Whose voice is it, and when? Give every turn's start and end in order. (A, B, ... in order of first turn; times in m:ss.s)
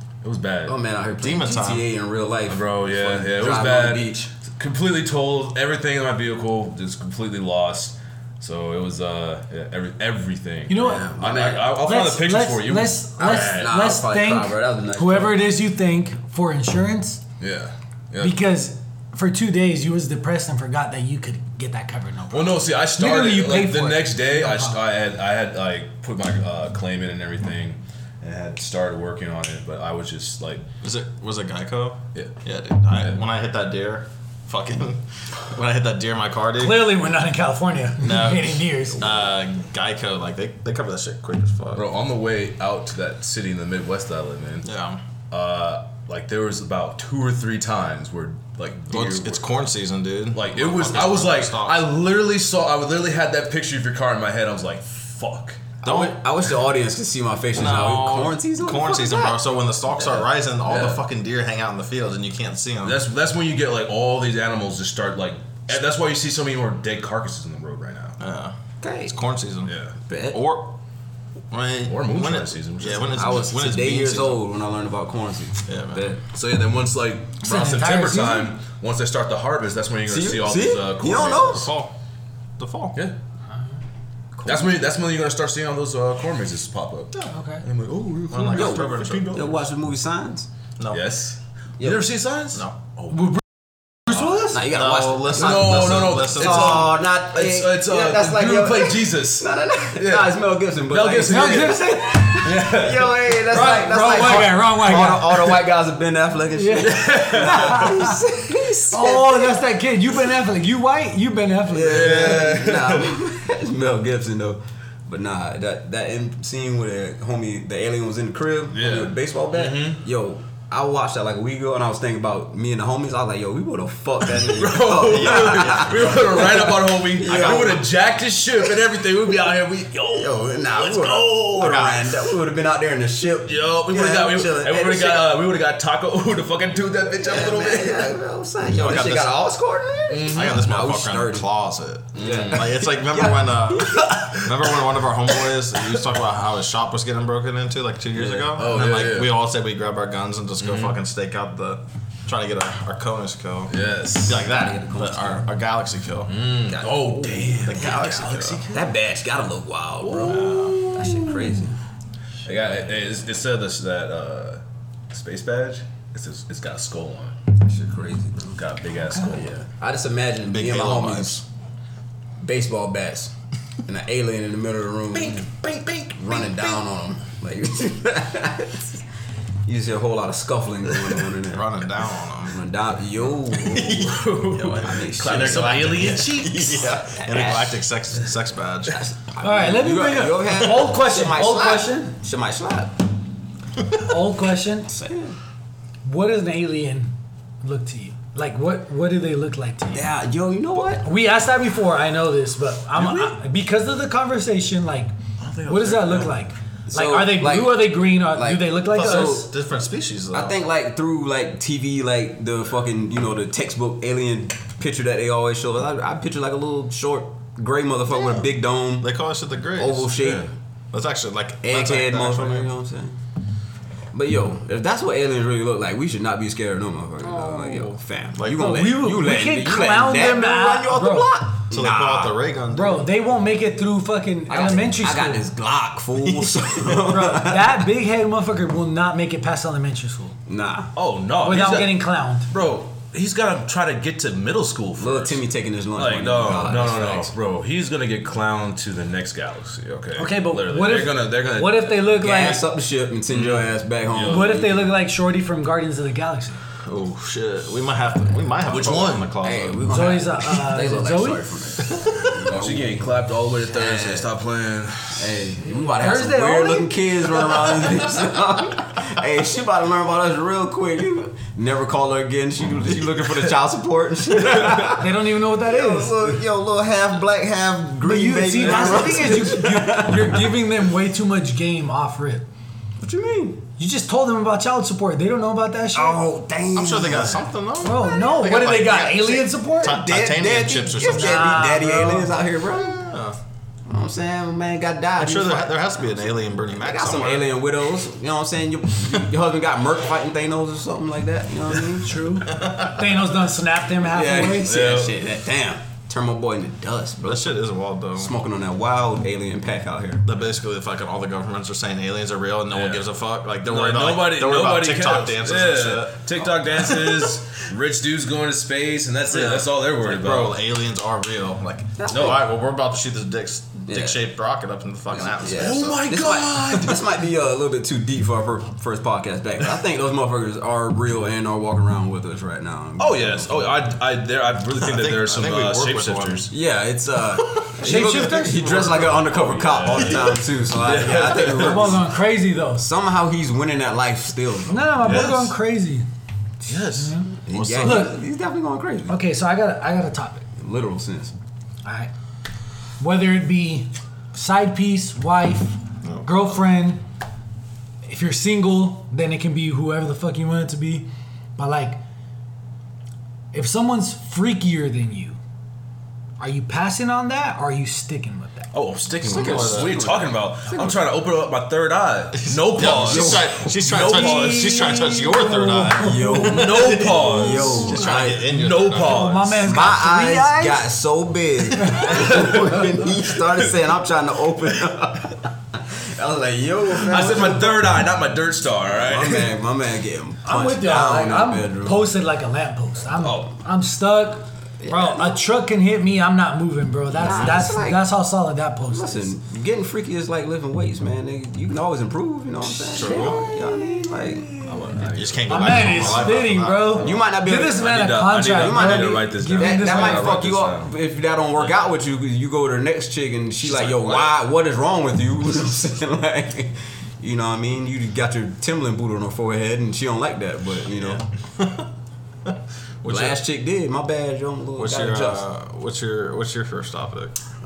0:00.2-0:00.8 A
0:00.6-0:04.3 B
0:01.2-0:01.9 C
0:02.5-0:13.7 A
0:10.7-0:11.1 D
0:10.8-0:11.8 B
0:11.8-0:17.2 D
0:13.2-0:15.5 B
0:17.4-0:18.4 A
0:18.2-0:24.8 D
0:22.3-0:30.6 A
0:30.8-0:37.0 C
0:32.9-0:33.2 A
0:36.6-0:39.2 D
0:38.0-0:41.8 C
0:41.7-0:44.7 A
0:44.6-0:45.0 C
0:45.3-0:49.4 A
0:48.9-0:51.9 C
0:50.3-0:55.6 A
0:55.8-0:59.4 B
0:55.8-0:56.2 C
0:57.5-1:03.0 C
0:59.9-1:01.0 B
1:02.8-1:08.2 A
1:08.2-1:09.7 C
1:08.8-1:09.2 B
1:09.6-1:09.9 A
1:10.1-1:10.4 B
1:10.3-1:10.7 C
1:11.5-1:14.4 C
1:11.9-1:13.3 A
1:13.1-1:16.2 B
1:15.7-1:16.1 C
1:16.2-1:21.7 A
1:17.4-1:18.6 D
1:20.1-1:21.7 B
1:21.3-1:21.9 C
1:22.6-1:23.0 C
1:24.4-1:24.8 B
1:24.4-1:29.7 A
1:27.3-1:27.6 D
1:28.3-1:29.4 C
1:28.5-1:30.5 B
1:30.8-1:31.0 C
1:30.9-1:33.4 A
1:34.1-1:34.5 D
1:34.1-1:37.0 C
1:34.3-1:49.6 B
1:35.3-1:43.4 A
1:41.2-1:42.3 D
1:43.5-1:45.6 D
1:46.5-1:48.2 D
1:46.8-1:47.9 A
1:48.8-1:52.6 D
1:51.7-2:07.8 B
1:51.8-1:53.2 A
1:58.7-2:00.0 A
2:04.4-2:12.0 A
2:05.0-2:06.4 C
2:07.3-2:07.8 C
2:10.1-2:15.3 B
2:11.6-2:12.1 C
2:13.4-2:18.1 A
2:17.2-2:21.5 B
2:18.8-2:19.4 C
2:20.1-2:20.7 A
2:20.3-2:33.7 C
2:22.2-2:22.7 A
2:22.2-2:24.8 B
2:28.2-2:28.6 B
2:28.5-2:29.3 A
2:30.6-2:31.0 A
2:33.7-2:34.4 A
2:34.2-2:36.3 C
2:34.4-2:35.5 B
2:36.3-2:38.9 A
2:36.7-2:41.8 B
2:37.6-2:38.6 C
2:40.0-2:41.6 A
2:40.2-2:40.8 C
2:42.4-2:47.4 A
2:47.6-2:48.6 B
2:48.4-2:49.6 A
2:49.2-2:51.4 B
2:50.5-2:51.4 C
2:52.4-2:53.3 B
2:53.8-2:55.4 B
2:55.1-2:56.8 A
2:56.1-2:59.0 B
2:59.6-3:01.8 B
3:01.4-3:02.6 C
3:02.5-3:07.8 B
3:03.6-3:06.8 A
3:05.3-3:09.0 C
3:08.9-3:12.9 B
3:09.4-3:12.1 D
3:14.0-3:14.9 D
3:14.9-3:15.4 B
3:16.0-3:20.0 D
3:19.9-3:21.0 B
3:21.0-3:25.1 D
3:25.4-3:26.3 A
3:25.6-3:29.5 D
3:26.9-3:29.5 B
3:28.9-3:30.6 C
3:30.3-3:39.1 B
3:38.1-3:38.4 C
3:39.0-3:40.2 C
3:39.8-3:40.5 B
3:40.2-3:40.5 A
3:40.9-3:42.7 C
3:41.6-3:43.2 B
3:44.1-3:52.4 B
3:47.3-3:48.0 A
3:48.4-3:48.9 C
3:48.4-3:51.4 D
3:51.7-3:53.0 C
3:52.7-3:55.4 D
3:54.5-3:57.8 B
3:57.0-4:00.4 D
4:00.5-4:00.9 B
4:00.9-4:05.4 A
4:01.4-4:02.5 D
4:05.0-4:07.3 B
4:05.9-4:12.1 A
4:10.2-4:12.6 D
4:12.2-4:14.9 B
4:13.3-4:14.6 A
4:14.2-4:16.6 D
4:16.8-4:20.1 C
4:18.6-4:19.3 A
4:19.4-4:23.1 B
4:19.9-4:21.4 D
4:21.8-4:22.3 C
4:22.5-4:25.5 A
4:23.7-4:24.3 B
4:25.2-4:40.6 B
4:25.6-4:27.2 D
4:34.9-4:36.4 D
4:38.0-4:42.4 D
4:38.6-4:39.3 A
4:43.0-4:43.6 B
4:43.8-4:46.2 D
4:45.9-4:47.4 B
4:46.7-4:51.7 C
4:47.8-4:50.0 D
4:49.8-4:53.0 B
4:51.0-4:52.3 D
4:52.7-4:53.4 C
4:53.9-5:02.2 B
4:55.2-4:57.5 C
5:02.0-5:04.7 D
5:02.5-5:03.1 C
5:04.1-5:07.6 B
5:04.6-5:05.2 A
5:07.2-5:08.3 C
5:08.1-5:10.2 B
5:10.2-5:16.2 C
5:12.7-5:13.0 A
5:13.6-5:20.6 A
5:16.8-5:17.2 C
5:19.3-5:26.0 C
5:22.0-5:22.5 B
5:22.1-5:22.4 A
5:23.9-5:24.2 B
5:25.1-5:33.8 B
5:25.5-5:27.1 A
5:33.0-5:36.5 A
5:34.8-5:36.4 C
5:36.5-5:42.0 B
5:37.8-5:39.0 D
5:37.9-5:42.0 A
5:39.9-5:40.3 C
5:41.5-5:42.9 D
5:42.8-5:44.8 B
5:44.7-5:46.0 D
5:45.0-5:45.5 A
5:46.6-5:47.2 A
5:47.0-5:48.2 D
5:47.4-5:49.1 B
5:47.5-5:48.1 C
5:49.1-5:50.5 D
5:50.6-5:51.3 B
5:51.8-5:52.1 D
5:53.0-5:57.0 D
5:56.0-5:56.5 C
5:58.0-6:02.0 D
6:03.5-6:05.4 D
6:06.4-6:08.7 D
6:08.7-6:15.1 A
6:09.2-6:10.1 C
6:09.2-6:11.0 B
6:12.4-6:19.4 C
6:12.8-6:13.6 B
6:13.9-6:16.5 D
6:15.9-6:18.5 B
6:16.4-6:19.7 A
6:19.0-6:20.8 D
6:19.6-6:27.8 B
6:21.8-6:22.5 D
6:22.0-6:23.6 A
6:26.9-6:29.5 A
6:29.0-6:32.0 B
6:30.4-6:39.3 D
6:33.2-6:33.5 A
6:34.8-6:35.4 B
6:37.1-6:38.1 B
6:38.9-6:45.0 B
6:42.8-6:43.9 D
6:42.9-6:43.4 C
6:44.6-6:50.9 A
6:45.1-6:47.2 C
6:45.5-6:50.4 D
6:47.0-6:47.8 B
6:48.5-7:01.2 B
6:53.6-6:54.3 A
7:01.0-7:01.9 C
7:02.4-7:03.4 C
7:03.0-7:05.4 B
7:04.8-7:07.3 C